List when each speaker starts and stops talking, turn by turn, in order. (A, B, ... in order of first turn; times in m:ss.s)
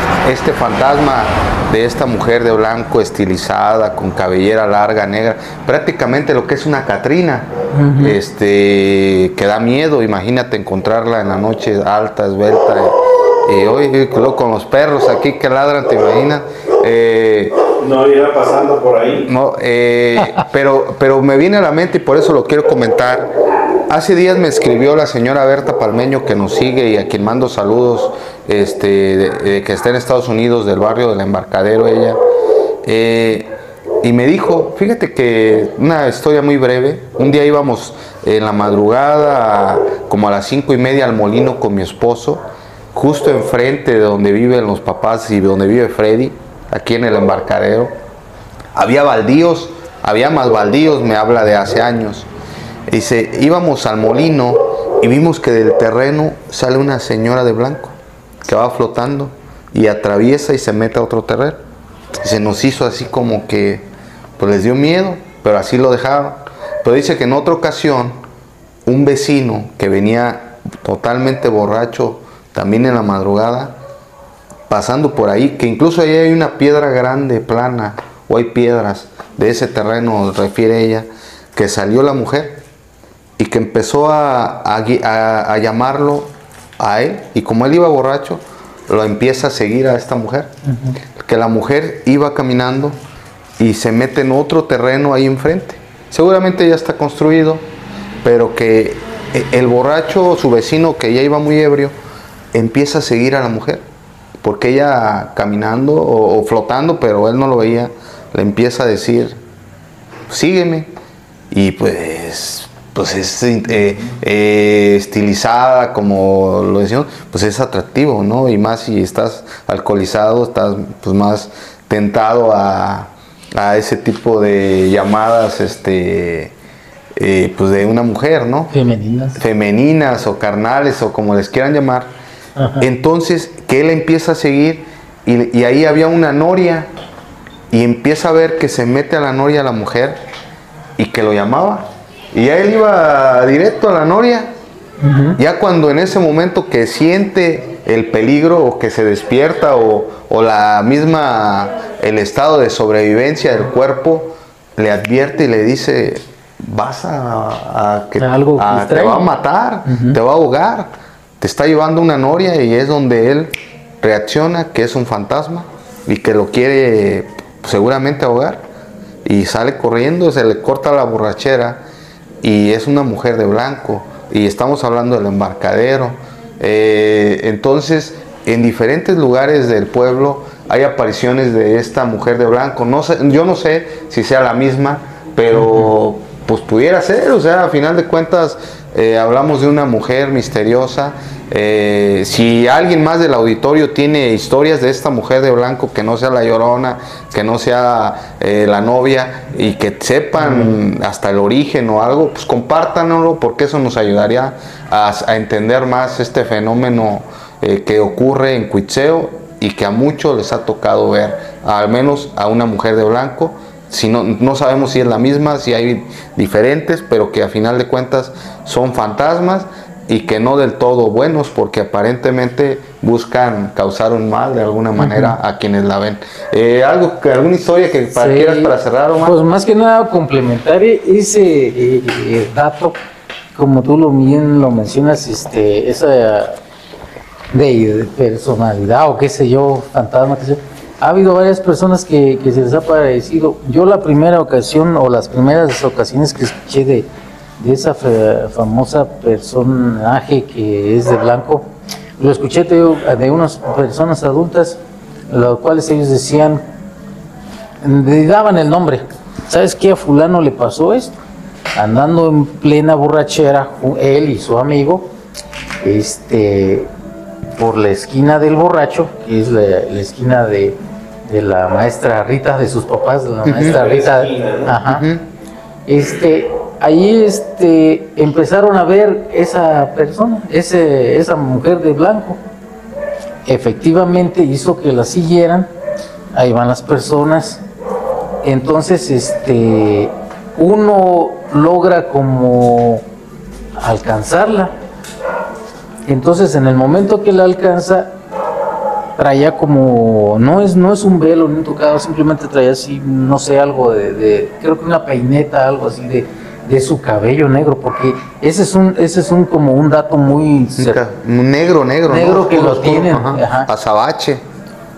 0:00.2-0:17.6 A
0:07.7-0:08.2 B
0:17.8-0:19.3 C
0:19.3-0:23.3 A
0:23.9-0:32.2 A
0:32.8-0:47.9 A
0:48.7-0:52.3 A
0:52.9-1:01.6 A
1:02.2-1:03.9 A
1:04.4-1:08.2 A
1:08.8-1:13.8 A
1:14.7-1:22.6 A
1:23.4-1:30.5 A
1:30.6-1:31.0 B
1:31.2-1:33.0 A
1:33.6-1:37.7 A
1:38.2-1:41.9 A
1:42.5-1:43.8 A
1:44.4-1:49.4 A
1:50.3-1:50.9 A
1:51.5-2:06.5 A
2:07.2-2:08.7 A
2:08.7-2:09.4 B
2:09.3-2:12.1 A
2:12.6-2:12.9 B
2:12.8-2:16.9 A
2:17.7-2:20.2 A
2:21.0-2:24.5 A
2:25.0-2:25.4 B
2:25.4-2:48.6 A
2:38.2-2:39.3 B
2:39.8-2:40.2 B
2:49.2-2:51.8 A
2:52.4-3:49.4 A
3:05.5-3:05.9 B
3:20.4-3:20.7 B
3:45.0-3:45.3 B
3:48.1-3:53.0 B
3:53.5-3:56.6 B
3:57.5-4:07.1 B
4:07.6-4:11.7 B
4:12.2-4:16.6 B
4:17.8-4:21.1 B
4:21.7-4:25.1 B
4:25.8-4:26.9 B
4:27.6-4:35.0 B
4:33.4-4:33.8 A
4:33.6-4:34.8 C
4:34.8-4:35.2 A
4:35.9-4:42.4 B
4:43.4-4:45.7 B
4:46.3-4:47.6 B
4:48.4-4:53.0 B
4:53.8-4:54.7 B
4:56.0-4:58.1 B
4:59.2-5:11.0 B
5:10.8-5:14.4 A
5:12.1-5:13.7 B